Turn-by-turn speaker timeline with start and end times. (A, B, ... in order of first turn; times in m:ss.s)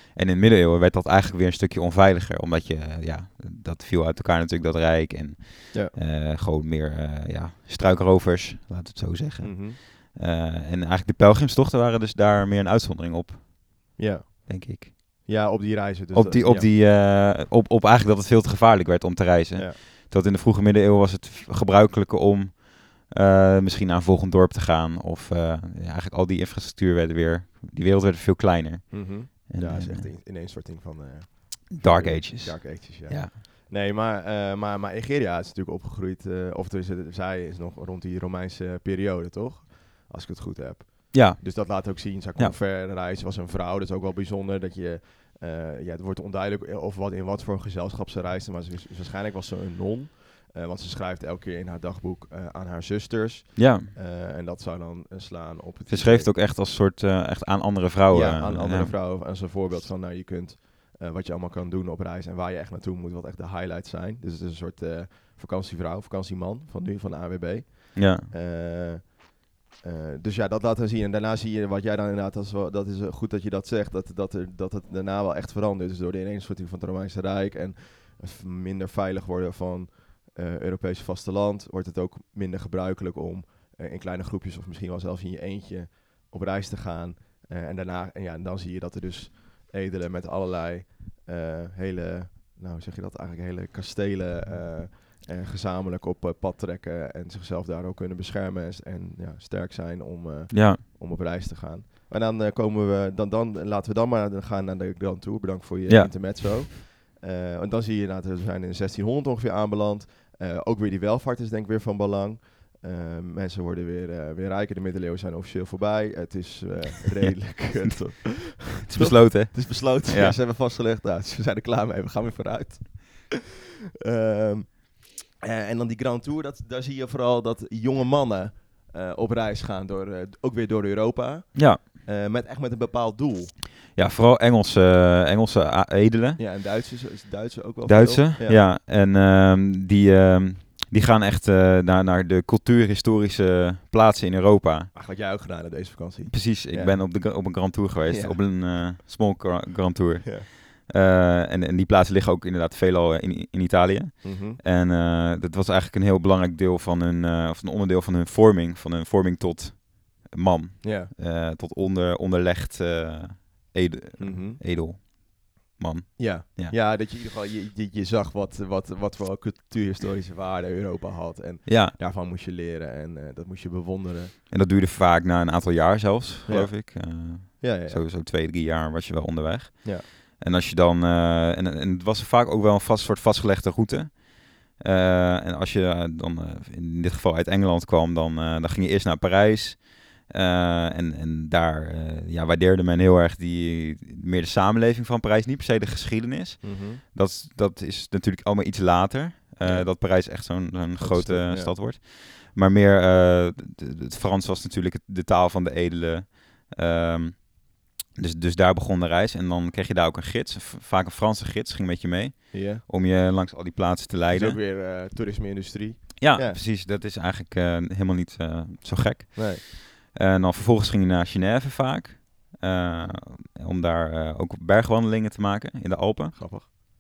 0:00.1-0:15.3 A
0:09.4-0:09.8 B
0:14.0-0:16.7 B
0:16.1-0:30.1 A
0:28.9-0:56.3 B
0:31.7-0:33.4 A
0:41.1-0:42.6 A
0:53.6-0:53.9 A
0:55.9-0:59.0 A
0:58.1-2:03.4 B
1:08.0-1:08.3 A
1:40.5-1:40.8 A
1:45.9-1:46.6 A
1:57.2-1:57.9 A
1:58.8-2:00.4 A
2:04.1-2:13.5 B
2:11.5-2:11.8 A
2:13.9-2:16.4 A
2:16.4-2:18.6 B
2:17.9-2:24.9 A
2:24.9-2:28.4 B
2:26.3-2:46.8 A
2:34.2-2:34.6 B
2:40.8-2:41.1 B
2:44.2-2:44.6 B
2:46.2-2:54.4 B
2:51.6-2:52.0 A
2:54.5-3:34.6 A
2:56.5-2:58.0 B
3:16.6-3:17.0 B
3:19.6-3:21.8 B
3:32.5-3:32.8 B
3:34.3-3:36.6 B
3:36.2-3:46.4 A
3:39.4-3:39.6 B
3:46.3-3:46.7 B